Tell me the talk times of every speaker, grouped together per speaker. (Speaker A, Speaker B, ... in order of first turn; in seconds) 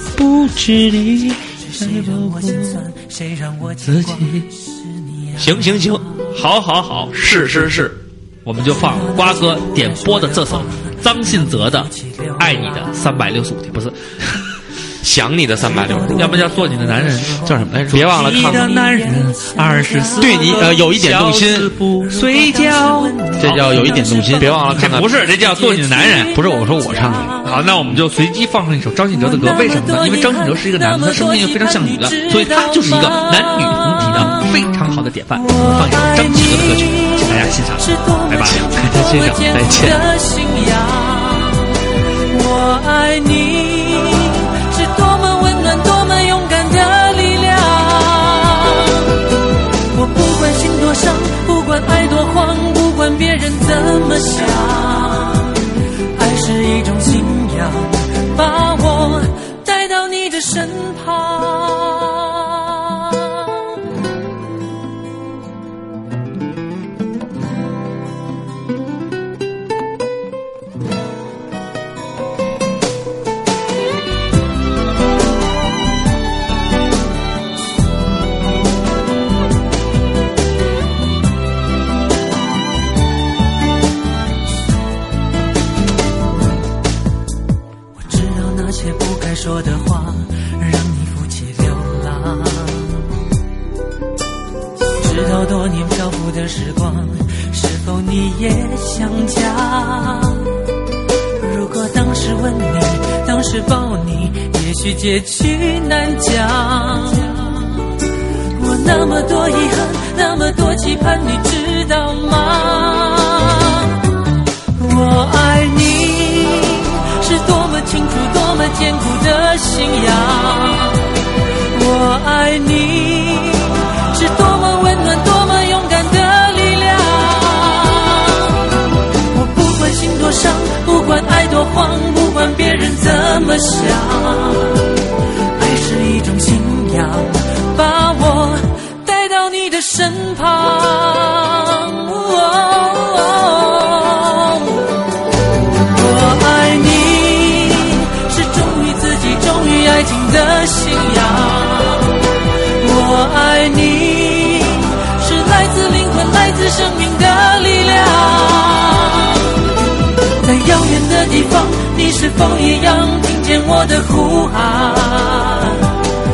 Speaker A: 0.1-2.9, 3.9-4.2, 17.4-18.0, 20.2-21.7, 23.4-24.8, 26.3-27.3
Speaker B: 1.7-4.5, 5.1-5.4, 8.8-10.9, 12.1-12.6, 18.3-20.6, 22.0-27.5, 29.1-34.6, 35.3-49.3, 49.9-55.6, 56.1-63.8, 88.0-93.2, 95.0-100.6, 101.4-108.0, 108.5-114.0, 114.7-121.1, 121.7-135.0, 135.6-145.0, 145.8-159.8, 160.4-166.0
Speaker C: 5.4-6.1, 7.1-7.9, 15.0-16.4, 17.8-18.7, 23.5-23.8, 24.4-25.1, 38.4-40.0
Speaker D: 6.3-14.5, 16.1-23.7, 24.8-26.3, 27.4-38.6